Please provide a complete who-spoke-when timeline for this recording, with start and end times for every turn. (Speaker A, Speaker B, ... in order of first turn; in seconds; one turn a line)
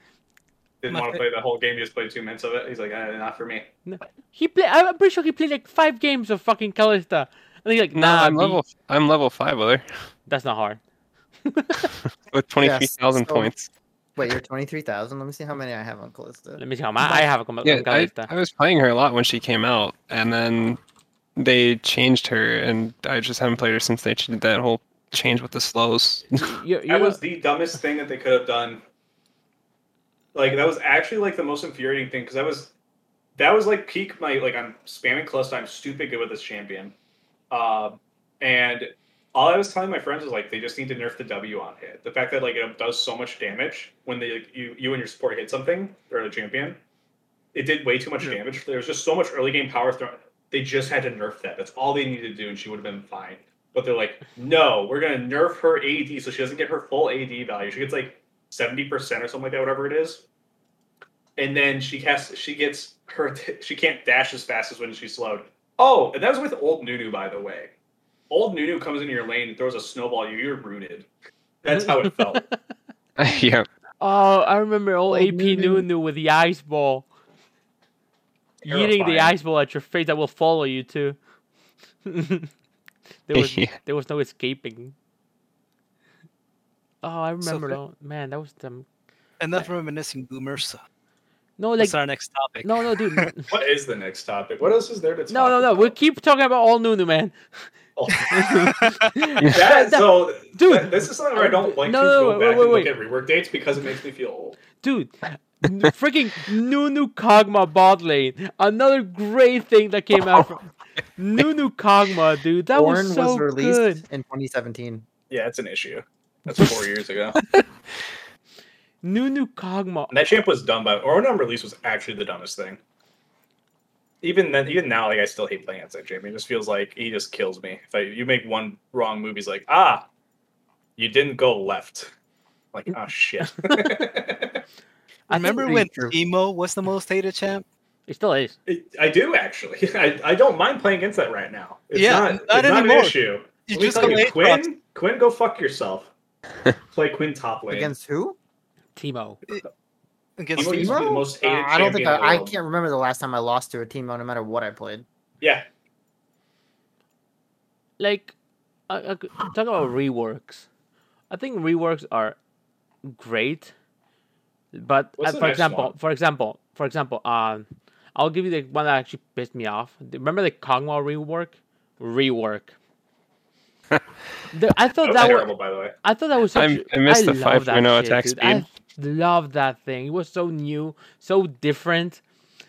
Speaker A: 0.8-3.7
Speaker B: 0.9-1.2
Speaker C: 3.9-8.6
Speaker D: 7.9-9.9
Speaker C: 10.3-10.8
Speaker C: 11.4-11.9
Speaker D: 12.3-13.7
Speaker E: 12.6-13.5
Speaker E: 14.2-16.6
Speaker C: 16.6-18.3
Speaker D: 17.1-20.8
Speaker D: 21.4-26.6
Speaker C: 26.4-27.2
Speaker A: 26.9-28.8
Speaker A: 30.3-32.7
Speaker A: 33.4-36.9
Speaker A: 37.5-46.8
Speaker A: 47.5-60.2
Speaker A: 61.4-67.7
Speaker A: 68.3-71.1
Speaker A: 71.6-72.4
Speaker C: 71.7-72.5
Speaker D: 73.2-73.7
Speaker C: 74.0-77.1
Speaker E: 75.1-75.9
Speaker A: 78.6-79.4
Speaker C: 78.7-81.2
Speaker C: 82.0-82.5
Speaker C: 83.3-84.9
Speaker D: 83.3-83.8
Speaker C: 87.0-88.9
Speaker B: 87.4-87.8
Speaker B: 89.4-90.8
Speaker C: 91.6-92.0
Speaker B: 91.8-93.3
Speaker C: 92.6-93.5
Speaker A: 93.5-95.9
Speaker C: 95.3-97.4
Speaker A: 98.0-98.3
Speaker C: 98.3-102.9
Speaker B: 98.4-99.1
Speaker A: 99.4-104.6
Speaker C: 104.8-114.0
Speaker E: 112.7-115.0
Speaker A: 115.3-117.4
Speaker C: 119.0-120.1
Speaker A: 120.1-122.8
Speaker A: 124.2-130.1
Speaker A: 131.0-132.1
Speaker A: 132.7-134.6
Speaker C: 133.6-133.9
Speaker C: 135.3-135.9
Speaker B: 135.3-137.6
Speaker E: 135.6-136.1
Speaker C: 138.1-138.6
Speaker A: 138.7-146.1
Speaker B: 141.9-144.6
Speaker A: 146.9-147.9
Speaker E: 147.7-148.4
Speaker C: 148.9-149.4
Speaker B: 150.4-151.2
Speaker A: 150.5-152.5
Speaker E: 150.6-155.1
Speaker A: 155.4-155.7
Speaker C: 158.0-158.3
Speaker C: 158.9-160.7
Speaker C: 161.3-162.4
Speaker C: 163.0-163.7
Speaker C: 164.7-172.7
Speaker A: 165.2-165.9
Speaker C: 174.5-182.2
Speaker A: 175.0-175.9
Speaker D: 176.5-178.7